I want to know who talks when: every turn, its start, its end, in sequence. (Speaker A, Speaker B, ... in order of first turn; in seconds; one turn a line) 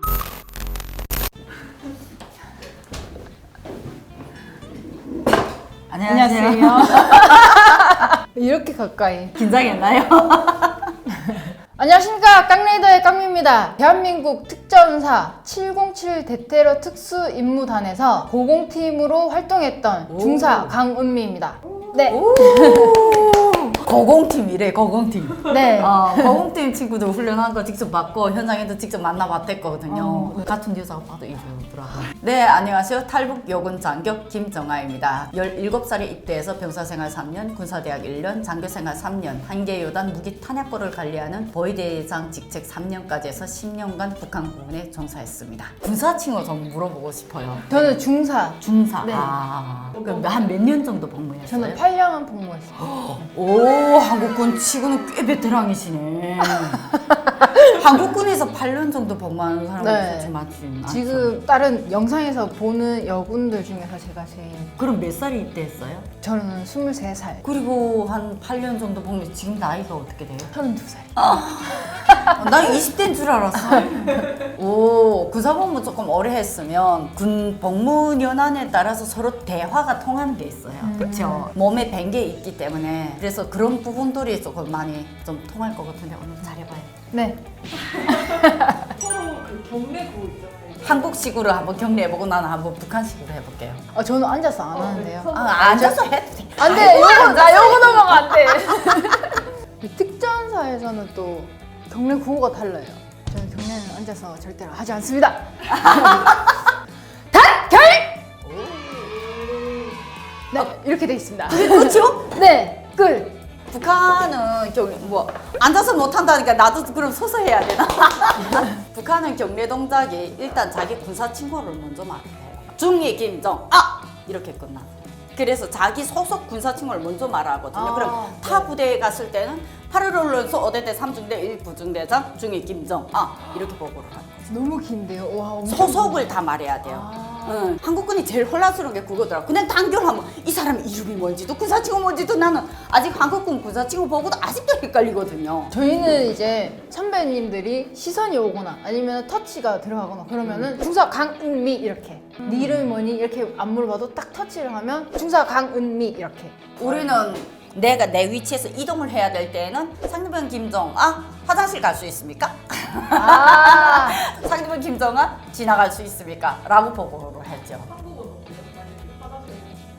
Speaker A: 5.9-8.0
Speaker B: 6.1-9.4
Speaker A: 9.3-10.9
Speaker B: 11.1-23.3
Speaker A: 20.1-20.8
Speaker A: 22.1-48.0
Speaker B: 25.5-26.4
Speaker B: 29.9-30.5
Speaker B: 47.7-49.3
Speaker A: 48.6-51.8
Speaker B: 51.5-52.9
Speaker A: 52.8-56.8
Speaker B: 56.5-57.8
Speaker A: 57.5-61.3
Speaker B: 59.8-60.3
Speaker B: 60.9-64.8
Speaker A: 64.8-66.1
Speaker B: 66.2-67.4
Speaker A: 67.4-70.5
Speaker B: 70.5-72.7
Speaker A: 71.2-86.9
Speaker B: 73.7-74.2
Speaker B: 80.8-81.5
Speaker B: 87.1-89.0
Speaker C: 89.0-90.9
Speaker A: 90.8-93.8
Speaker B: 93.9-96.0
Speaker C: 95.0-95.3
Speaker A: 95.3-98.7
Speaker B: 96.6-106.4
Speaker A: 105.7-106.5
Speaker B: 107.3-108.3
Speaker A: 108.4-109.2
Speaker B: 110.5-113.3
Speaker A: 111.5-112.4
Speaker A: 113.7-134.5
Speaker B: 127.7-128.7
Speaker B: 134.5-137.7
Speaker A: 135.7-145.7
Speaker B: 145.7-157.2
Speaker A: 152.4-152.9
Speaker A: 156.8-167.9
Speaker B: 163.1-164.2
Speaker C: 167.9-169.9